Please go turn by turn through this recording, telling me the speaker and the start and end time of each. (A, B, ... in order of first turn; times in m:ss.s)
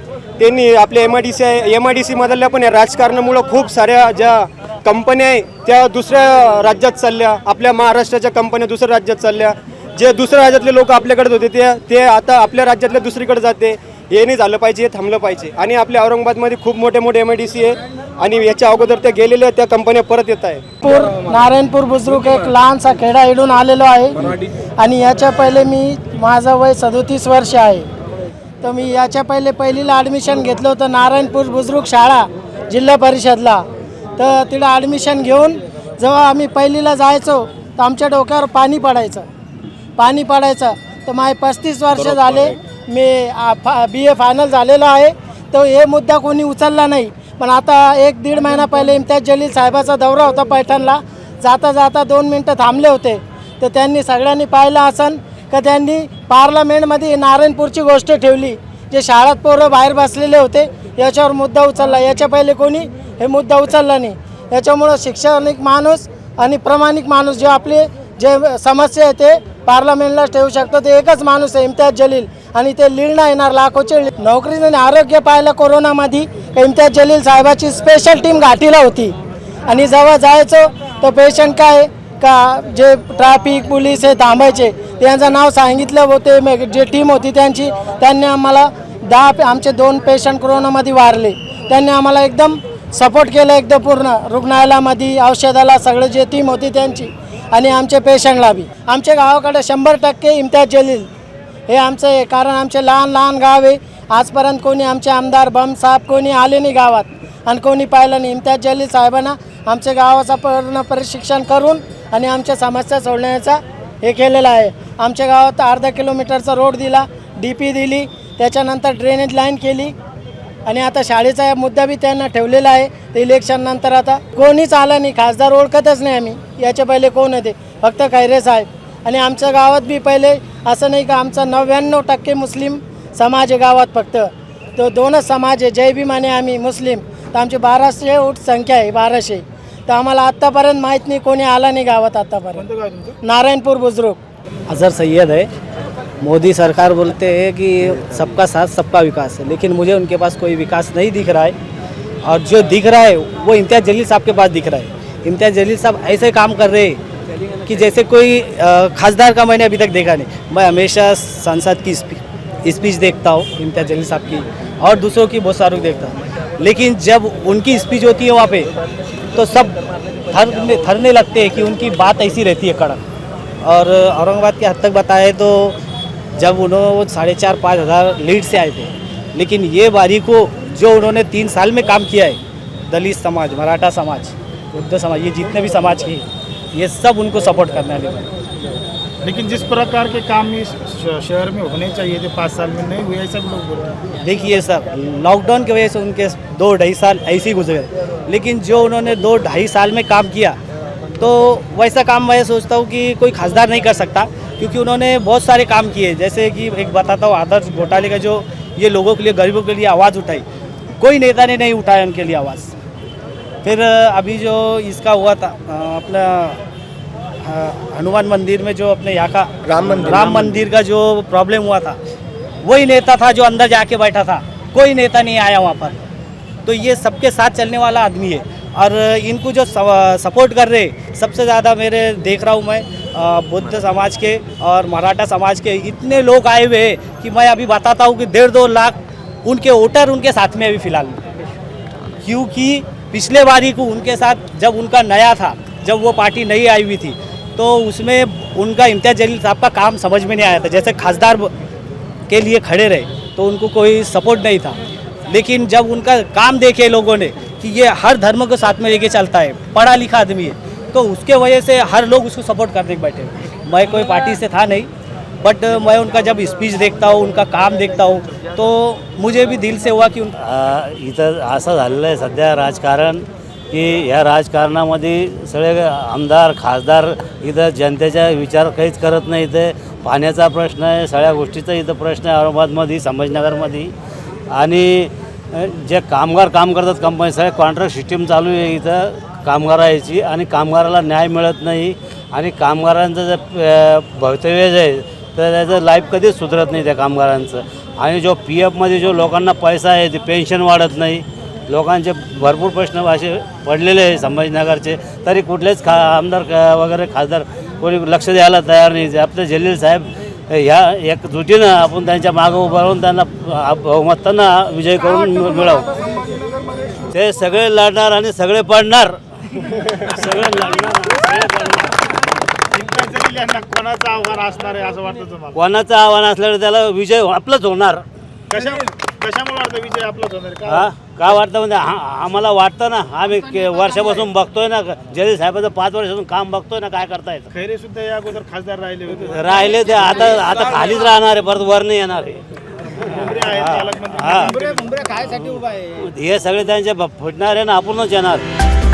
0:00.4-0:20.7 A
0:20.8-0:27.9 B
0:28.6-0:33.6 B
0:34.2-0:39.3 B
0:40.0-1:19.2 B
1:19.7-1:41.1 B
1:41.7-1:59.9 B
2:00.7-2:22.6 B
2:22.6-2:23.2 C
2:23.2-2:24.2 B
2:24.7-2:25.5 D
2:26.2-2:31.5 D
2:32.2-2:37.0 D
2:37.6-2:48.7 D
2:49.3-2:49.8 D
2:50.3-2:53.0 D
2:53.6-2:55.8 D
2:56.4-3:08.3 D
3:09.2-3:14.0 C
3:14.2-3:20.6 D
3:21.2-3:30.4 D
3:31.0-3:32.7 D
3:33.6-3:36.6 D
3:37.4-3:42.0 D
3:42.6-3:46.0 D
3:46.6-4:01.2 D
4:02.2-4:11.5 D
4:12.3-4:24.9 D
4:25.4-4:30.4 D
4:30.4-4:43.9 E
4:44.5-5:15.9 E
5:17.0-5:22.1 E
5:22.7-5:25.6 C
5:25.5-5:28.0 E
5:28.5-5:30.9 C
5:30.7-5:37.5 E
5:37.5-5:40.0 C
5:39.1-5:42.4 E
5:43.0-5:44.8 E
5:43.1-5:45.1 C
5:45.3-5:48.4 E